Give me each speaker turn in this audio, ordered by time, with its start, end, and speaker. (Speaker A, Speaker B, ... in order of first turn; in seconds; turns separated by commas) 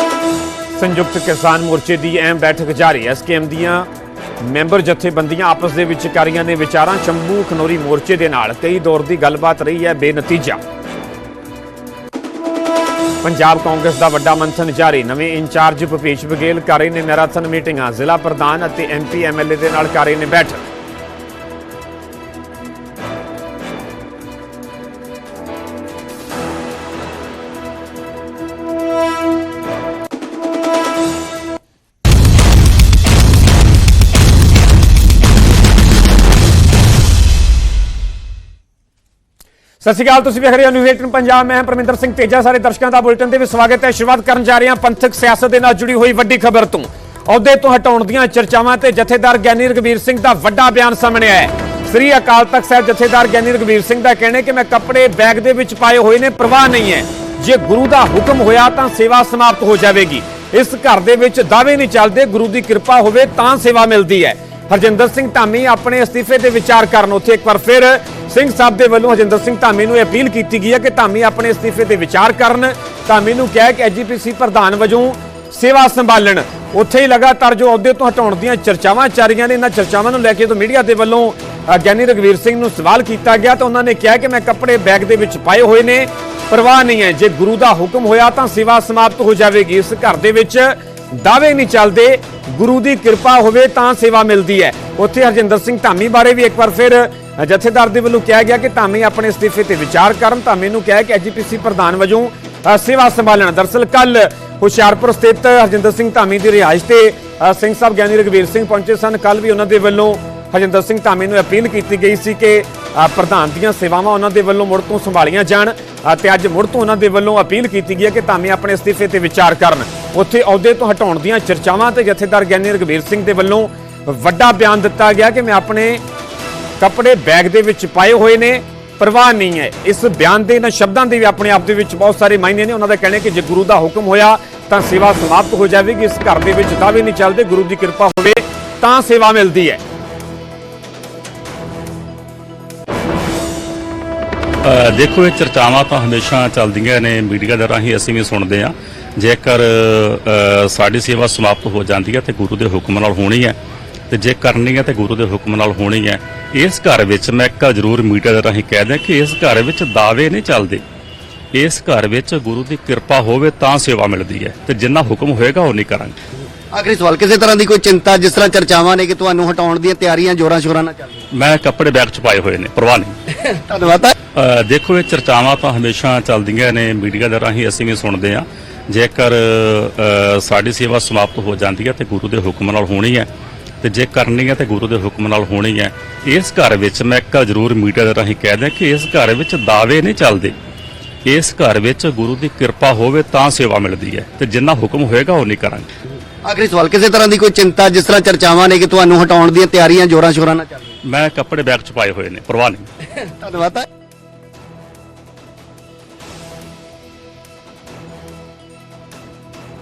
Speaker A: 0.8-3.9, Speaker A: 4.4-10.6, Speaker A: 13.2-20.7, Speaker A: 39.8-126.0, Speaker A: 126.8-139.8, Speaker B: 144.6-153.6, Speaker B: 154.1-160.8, Speaker B: 161.5-166.2, Speaker C: 166.7-171.3, Speaker B: 171.3-173.1, Speaker C: 173.3-174.2, Speaker B: 174.3-183.3, Speaker B: 183.8-190.6, Speaker B: 191.3-195.9, Speaker C: 196.5-200.9, Speaker B: 201.1-202.9, Speaker C: 203.1-203.9